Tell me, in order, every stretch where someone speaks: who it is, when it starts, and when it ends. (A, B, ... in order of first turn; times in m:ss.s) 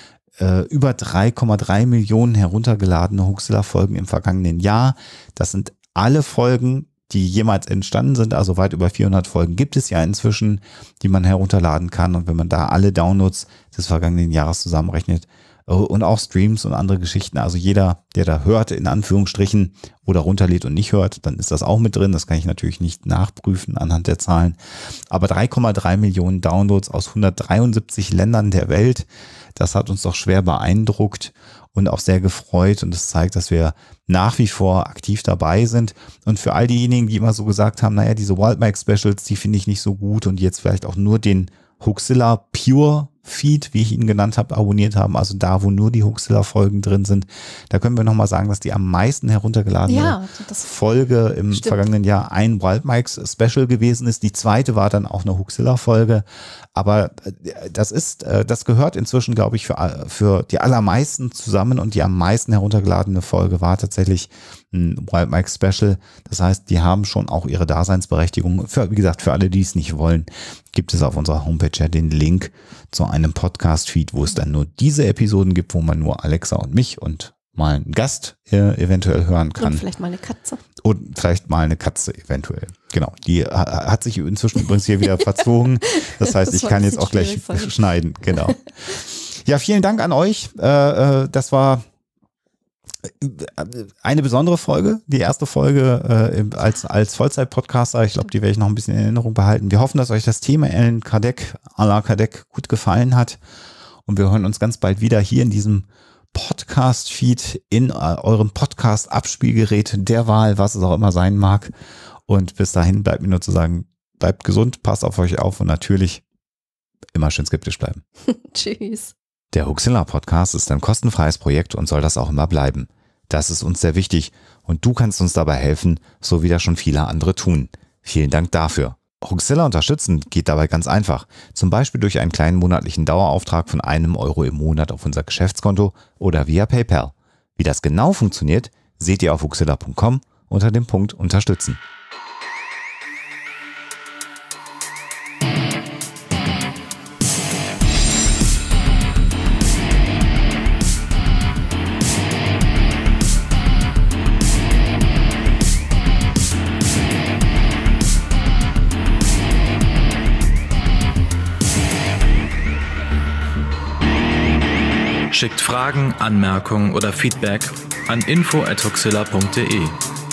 0:00.4-0:24.6 A
0:25.1-1:19.8 A
0:49.9-0:50.7 B
0:51.5-0:51.8 B
1:19.6-1:20.6 B
1:20.8-1:31.8 A
1:25.9-1:27.7 B
1:33.0-1:43.4 A
1:44.0-1:51.7 A
1:52.3-1:56.2 A
1:57.1-1:58.0 A
1:58.3-1:59.1 B
1:59.5-2:21.8 A
2:45.3-2:50.0 C